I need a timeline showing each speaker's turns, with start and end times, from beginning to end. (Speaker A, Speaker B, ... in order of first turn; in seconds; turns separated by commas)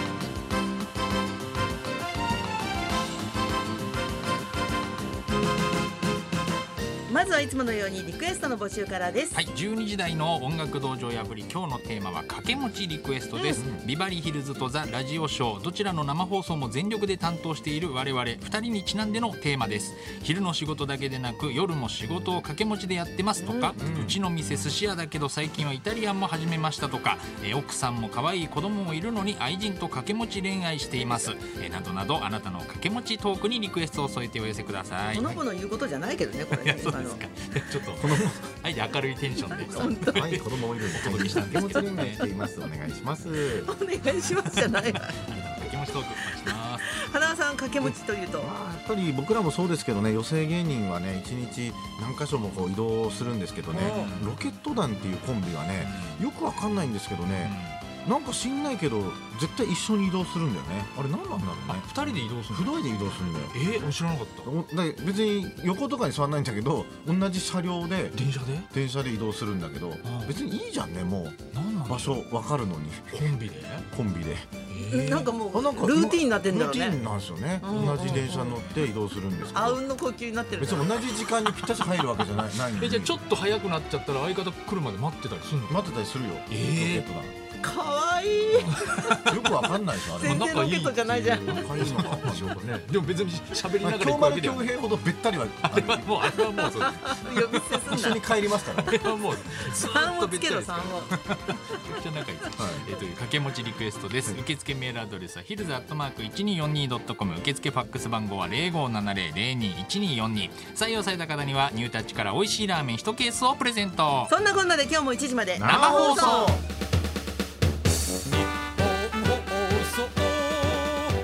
Speaker A: 7.1-9.4, Speaker B: 9.3-35.4, Speaker A: 13.3-13.6, Speaker C: 13.5-13.8, Speaker A: 23.4-23.8, Speaker C: 23.8-24.2, Speaker A: 35.1-37.2, Speaker B: 36.5-42.2, Speaker C: 37.9-38.5, Speaker A: 39.4-40.3, Speaker C: 39.9-43.7, Speaker A: 41.2-42.0, Speaker A: 43.4-45.2, Speaker B: 44.3-46.9, Speaker A: 46.2-48.5, Speaker C: 47.8-63.6, Speaker B: 53.7-54.4, Speaker A: 53.7-54.1, Speaker B: 55.8-56.2, Speaker B: 57.4-57.8, Speaker B: 61.3-64.5, Speaker C: 64.4-68.2, Speaker B: 68.1-68.7, Speaker C: 68.7-73.2, Speaker B: 70.0-70.4, Speaker B: 71.5-72.2, Speaker B: 73.1-73.9, Speaker C: 73.9-74.5, Speaker B: 74.7-75.4, Speaker A: 74.8-77.0, Speaker C: 75.5-79.8, Speaker A: 77.6-78.6, Speaker B: 77.7-78.6, Speaker A: 79.5-81.2, Speaker C: 80.6-83.2, Speaker B: 81.4-81.9, Speaker B: 82.4-85.8, Speaker C: 85.7-87.3, Speaker B: 86.5-87.1, Speaker A: 87.6-92.0, Speaker C: 88.5-90.5, Speaker B: 88.7-89.5, Speaker B: 90.1-94.7, Speaker C: 91.4-92.6, Speaker C: 93.8-96.1, Speaker B: 95.6-98.2, Speaker A: 96.3-98.2, Speaker C: 97.9-99.0, Speaker B: 98.7-114.3, Speaker A: 99.6-101.2, Speaker C: 102.6-102.8, Speaker A: 114.3-116.6, Speaker C: 115.5-116.6, Speaker B: 115.6-116.6, Speaker B: 119.1-120.7